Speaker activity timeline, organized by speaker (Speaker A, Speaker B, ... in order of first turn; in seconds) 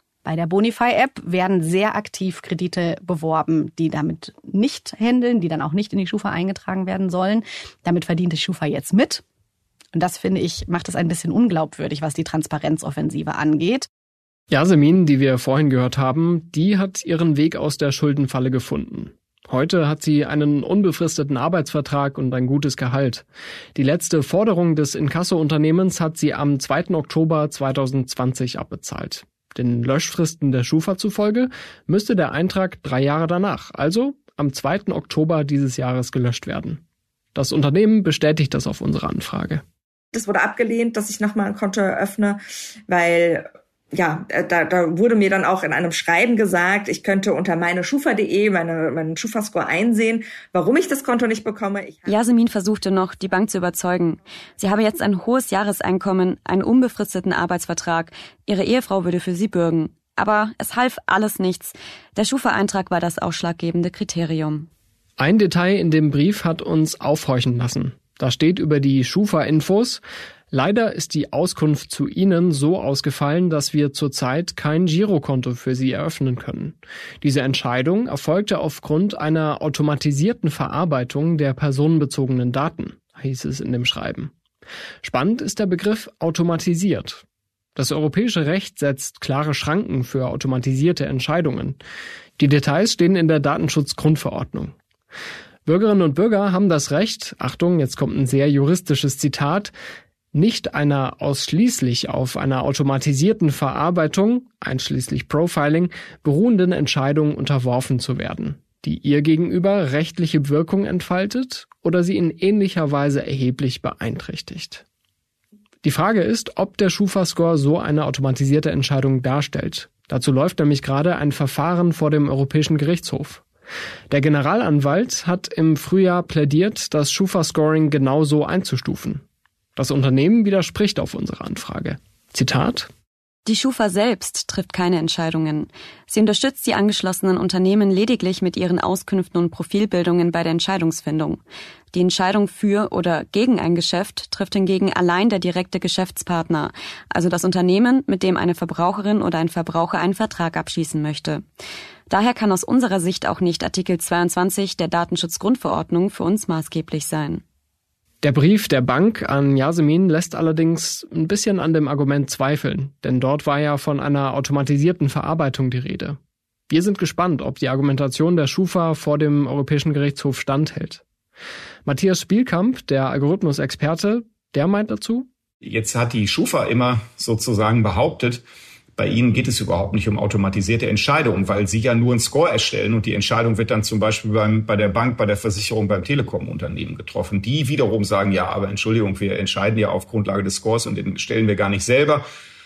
Speaker A: 0.2-9.2, 9.9-13.9
Speaker B: 14.5-36.8, 37.3-39.6, 65.2-84.3, 85.0-87.2, 87.8-91.8, 92.4-94.7, 95.6-99.7, 100.3-114.8, 115.8-123.4, 124.1-129.2, 129.8-132.9, 158.2-166.2, 166.7-171.0, 171.8-175.3
Speaker C: 40.1-52.1
Speaker D: 52.1-64.7, 133.4-141.4, 141.9-151.4, 152.1-157.4
Speaker E: 175.6-178.4, 179.0-192.2